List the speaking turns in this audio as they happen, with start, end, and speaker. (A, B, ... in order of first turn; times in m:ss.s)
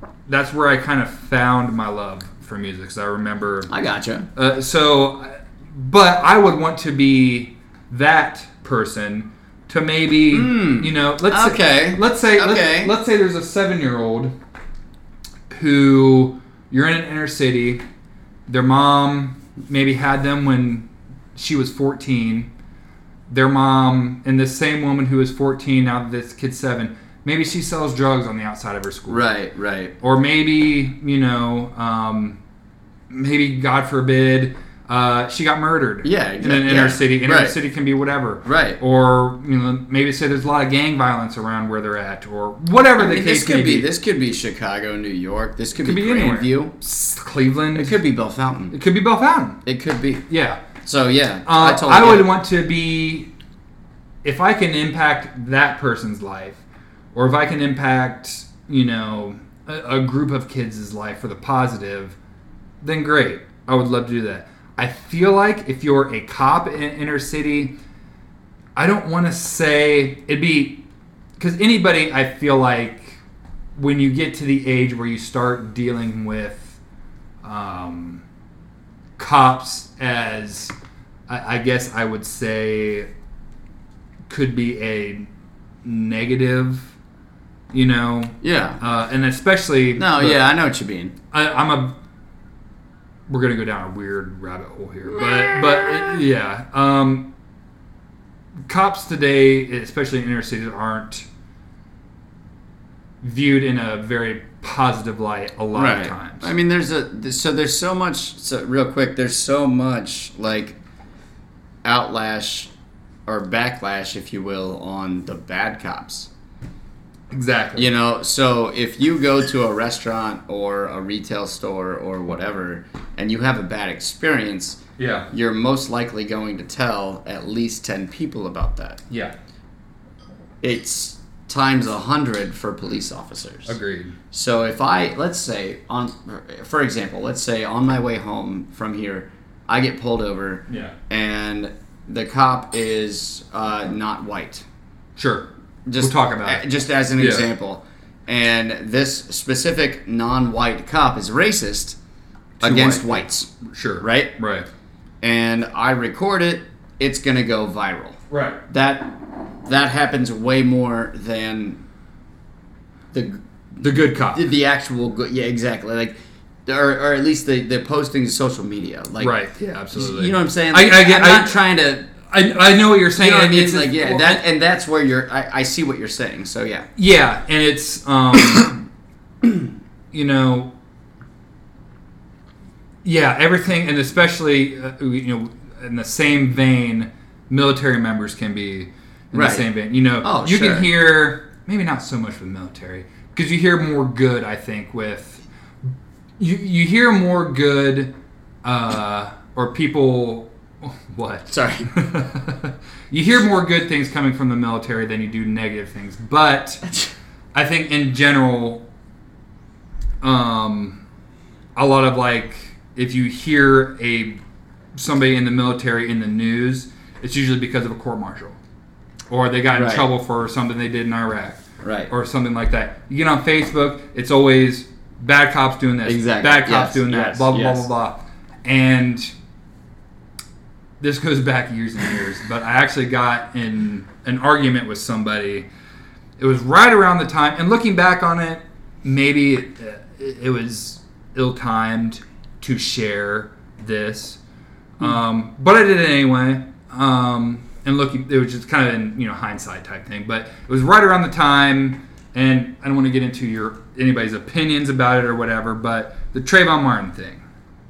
0:00.3-0:03.7 A
0:03.7-0:04.3 B
0:04.4-0:14.3 A
0:10.3-0:12.9 B
0:15.5-0:17.8 A
0:18.5-0:22.5 A
0:23.3-0:29.2 A
0:29.1-0:29.9 B
0:30.0-0:32.4 A
0:33.1-0:43.9 A
0:36.0-0:37.6 B
0:38.4-0:38.8 B
0:43.0-0:46.7 B
0:45.8-0:48.0 A
0:47.7-0:48.7 B
0:48.7-0:49.6 A
0:49.6-0:50.2 B
0:50.3-0:50.6 A
0:50.8-0:52.3 B
0:51.4-0:53.3 A
0:54.2-0:56.6 A
0:57.1-1:02.2 A
1:02.8-1:07.8 A
1:08.8-1:10.8 A
1:11.4-1:13.2 A
1:13.8-1:16.8 A
1:17.4-1:18.2 A
1:19.2-1:20.7 A
1:21.3-1:23.1 A
1:24.3-1:25.3 A
1:25.8-1:26.9 A
1:27.7-1:30.4 A
1:28.4-1:28.8 B
1:30.0-1:31.1 B
1:31.3-1:32.0 A
1:33.3-1:37.3 A
1:38.6-1:41.3 A
1:43.2-1:46.5 A
1:45.7-1:50.8 B
1:51.8-1:52.7 B
1:53.3-1:56.3 B
1:57.3-1:57.9 A
1:57.8-2:04.8 B
2:05.0-2:05.3 A
2:05.3-2:09.0 B
2:09.1-2:09.3 A
2:10.6-2:13.7 B
2:13.6-2:14.2 A
2:14.3-2:24.6 B
2:20.7-2:21.0 A
2:25.2-2:26.6 A
2:25.8-2:32.0 B
2:27.2-2:27.4 A
2:32.6-2:34.7 A
2:32.6-2:34.3 B
2:35.2-2:41.8 B
2:38.3-2:38.6 A
2:43.1-2:49.3 B
2:43.8-2:44.4 A
2:49.2-2:51.6 A
2:49.9-2:52.1 B
2:52.3-2:54.4 A
2:53.1-2:56.9 B
2:57.0-2:58.7 A
3:00.1-3:00.7 A
3:03.0-3:15.4 A
3:09.3-3:09.7 B
3:10.2-3:10.9 B
3:16.4-3:26.8 A
3:21.5-3:21.9 B
3:26.8-3:27.1 B
3:27.5-3:28.8 A
3:30.2-3:31.0 A
3:31.7-3:34.4 A
3:34.9-3:38.6 A
3:39.3-3:49.3 A
3:39.7-3:40.0 B
3:41.8-3:42.1 B
3:46.0-3:47.9 B
3:51.0-3:55.7 A
3:56.4-4:04.4 A
4:05.0-4:17.4 A